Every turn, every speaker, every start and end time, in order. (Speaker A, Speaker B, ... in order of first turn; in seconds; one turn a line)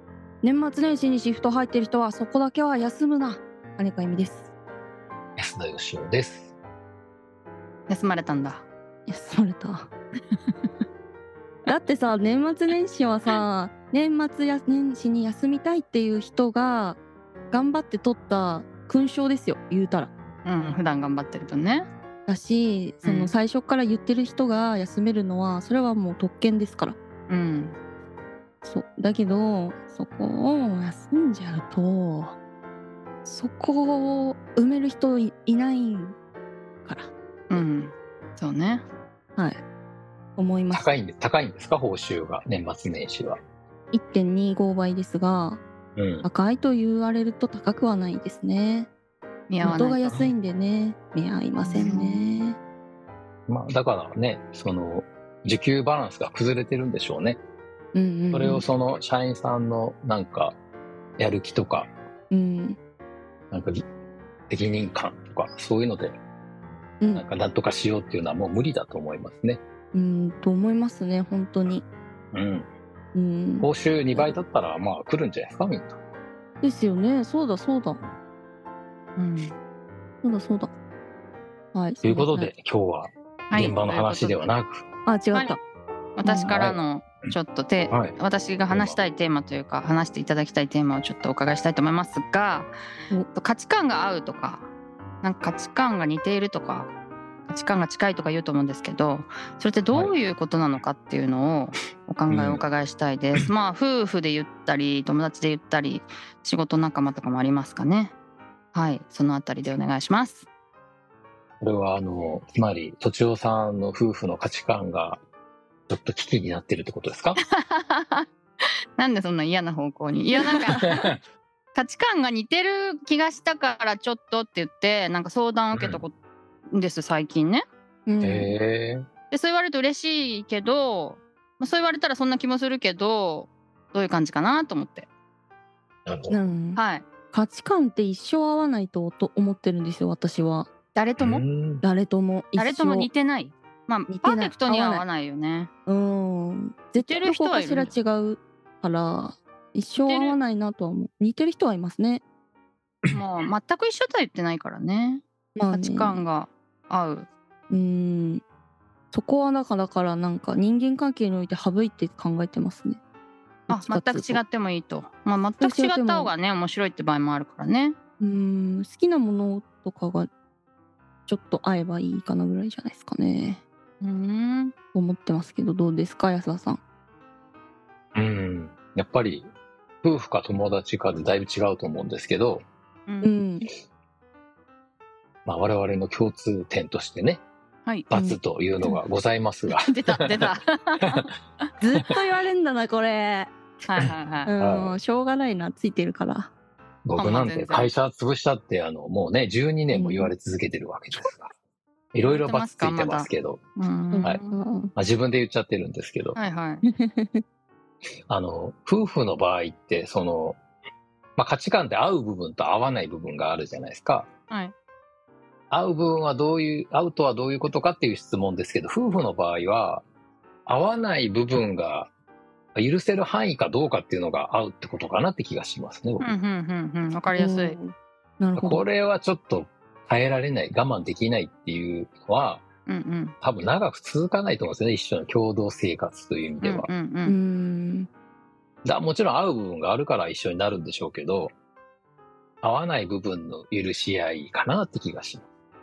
Speaker A: 0.4-4.5
Speaker B: 5.4-6.5
Speaker C: 7.9-8.7
Speaker A: 9.1-9.9
Speaker C: 10.3-10.7
Speaker A: 11.7-17.0
Speaker A: 17.5-20.1
Speaker C: 20.4-21.9
Speaker A: 22.3-27.0
Speaker C: 23.0-23.3
Speaker C: 27.3-27.8
Speaker A: 28.6-32.4
Speaker A: 33.2-36.2
Speaker A: 36.8-37.6
Speaker C: 37.5-38.8
Speaker A: 39.4-39.6
Speaker A: 40.4-40.9
Speaker B: 40.7-43.4
Speaker A: 43.9-45.6
Speaker B: 46.0-46.3
Speaker A: 46.2-48.9
Speaker C: 49.5-50.2
Speaker A: 49.6-52.6
Speaker C: 51.6-52.2
Speaker B: 53.5-57.4
Speaker A: 57.9-58.6
Speaker B: 58.3-60.5
Speaker B: 61.2-61.9
Speaker A: 62.3-62.8
Speaker B: 63.5-63.8
Speaker B: 64.5-66.2
Speaker B: 67.1-69.6
Speaker A: 69.9-71.8
Speaker B: 72.3-72.7
Speaker A: 73.1-74.4
Speaker B: 73.6-76.0
Speaker A: 76.6-78.0
Speaker C: 79.2-79.5
Speaker A: 80.2-80.7
Speaker A: 81.7-82.5
Speaker B: 82.0-84.8
Speaker C: 83.5-84.5
Speaker A: 85.0-85.6
Speaker C: 86.2-92.7
Speaker A: 86.2-86.5
Speaker B: 86.5-87.3
Speaker B: 87.9-88.2
Speaker B: 88.7-89.0
Speaker C: 93.3-94.7
Speaker C: 95.2-96.9
Speaker C: 97.5-108.1
Speaker B: 102.3-102.6
Speaker C: 108.7-110.5
Speaker B: 111.6-115.2
Speaker B: 115.9-117.4
Speaker C: 117.4-118.2
Speaker C: 119.0-120.9
Speaker B: 120.7-121.2
Speaker C: 121.7-126.1
Speaker B: 125.7-126.0
Speaker C: 126.7-127.6
Speaker A: 128.1-128.5
Speaker B: 128.2-129.1
Speaker C: 129.3-135.1
Speaker B: 136.1-136.4
Speaker A: 136.3-136.8
Speaker C: 136.8-137.1
Speaker A: 137.3-140.7
Speaker C: 140.9-141.4
Speaker B: 141.2-141.8
Speaker A: 141.8-143.1
Speaker C: 142.6-145.7
Speaker A: 144.1-145.0
Speaker A: 145.8-152.2
Speaker C: 147.0-147.9
Speaker C: 150.0-150.4
Speaker C: 153.1-157.3
Speaker A: 155.5-156.2
Speaker A: 157.7-158.4
Speaker A: 159.1-163.0
Speaker A: 163.7-164.4
Speaker C: 163.7-167.9
Speaker A: 165.6-166.3
Speaker A: 168.2-170.3
Speaker A: 171.3-173.6
Speaker C: 174.0-174.7
Speaker A: 174.9-176.8
Speaker B: 178.1-179.5
Speaker B: 180.0-182.6
Speaker C: 183.1-183.3
Speaker A: 183.2-183.7
Speaker B: 185.4-187.4
Speaker B: 188.1-190.4
Speaker A: 188.1-189.0
Speaker C: 189.7-191.2
Speaker A: 191.8-193.5
Speaker C: 193.9-194.5
Speaker A: 194.5-196.5
Speaker B: 194.6-195.0
Speaker B: 197.0-201.5
Speaker C: 197.2-197.9
Speaker A: 199.9-200.3
Speaker B: 202.1-203.6
Speaker C: 202.2-204.6
Speaker A: 204.1-204.9
Speaker B: 204.9-206.4
Speaker C: 206.3-206.8
Speaker A: 207.0-207.4
Speaker B: 208.3-210.6
Speaker B: 211.4-214.3
Speaker B: 215.7-220.0
Speaker B: 220.7-222.1
Speaker B: 222.7-226.3
Speaker C: 226.2-227.8
Speaker A: 227.3-228.8
Speaker B: 228.6-232.7
Speaker C: 232.9-233.3
Speaker B: 233.4-236.9
Speaker C: 236.6-237.4
Speaker A: 237.2-238.1
Speaker B: 238.8-241.5
Speaker B: 242.6-245.5